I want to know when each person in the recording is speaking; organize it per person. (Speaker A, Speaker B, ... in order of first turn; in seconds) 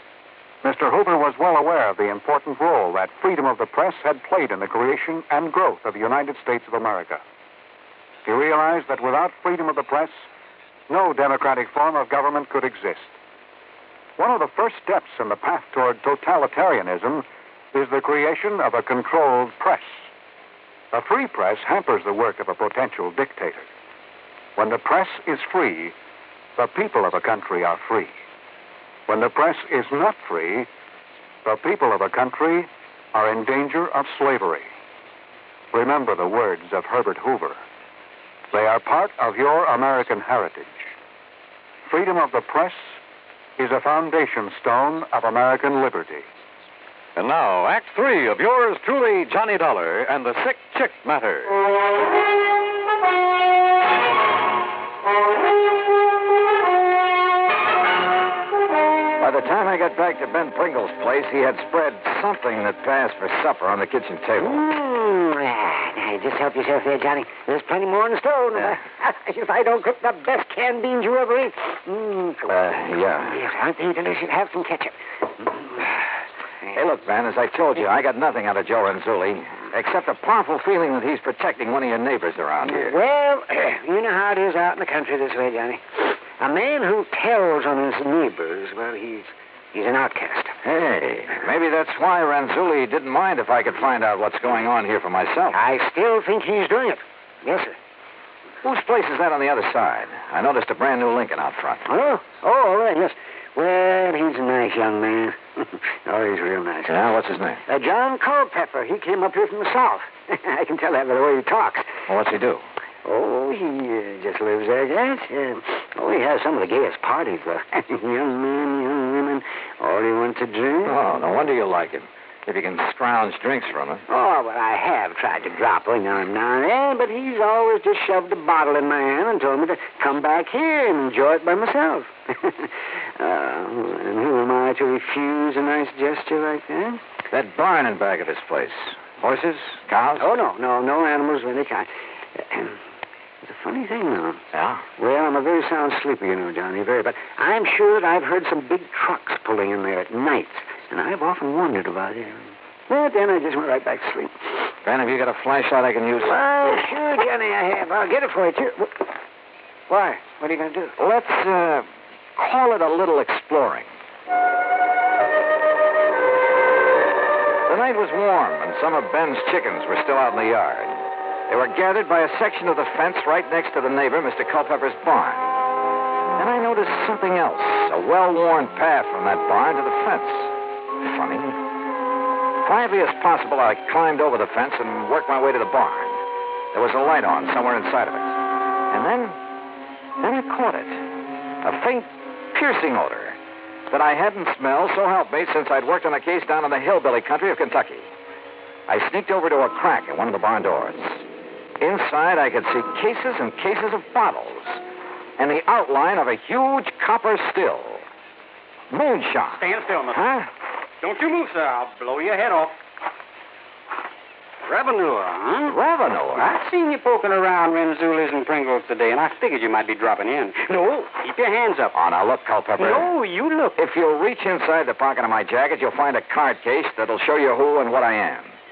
Speaker A: 0.6-7.2, 8.2-10.2, 10.9-13.2, 14.2-20.1, 20.9-23.7, 24.6-25.9, 26.6-28.1, 29.1-30.7, 31.4-34.7, 35.7-37.6, 38.5-40.8, 41.9-43.0, 43.6-46.3
Speaker B: 47.2-51.6
Speaker C: 59.2-64.6, 72.5-73.4, 76.7-83.0, 90.6-95.6, 98.6-101.9, 106.9-107.6, 112.1-112.6, 120.8-124.0, 137.3-140.3, 144.5-144.8, 154.8-156.4, 161.0-163.9, 167.7-175.5, 176.4-181.6, 182.6-186.2, 186.7-188.4, 188.9-189.4, 190.2-191.0, 191.6-193.4, 193.9-198.1, 198.9-201.3, 201.8-204.8, 205.4-208.1, 208.9-210.5, 215.7-216.6, 221.9-223.1, 223.8-228.6
Speaker D: 64.4-72.5, 73.2-75.9, 82.6-90.5, 95.5-97.8, 101.9-107.0, 107.7-111.9, 113.0-121.0, 124.1-137.0, 140.2-142.8, 143.4-144.4, 145.0-154.3, 156.2-159.1, 159.9-161.0
Speaker E: 209.5-210.3, 211.0-212.8, 214.7-215.8, 216.3-221.9, 222.8-223.8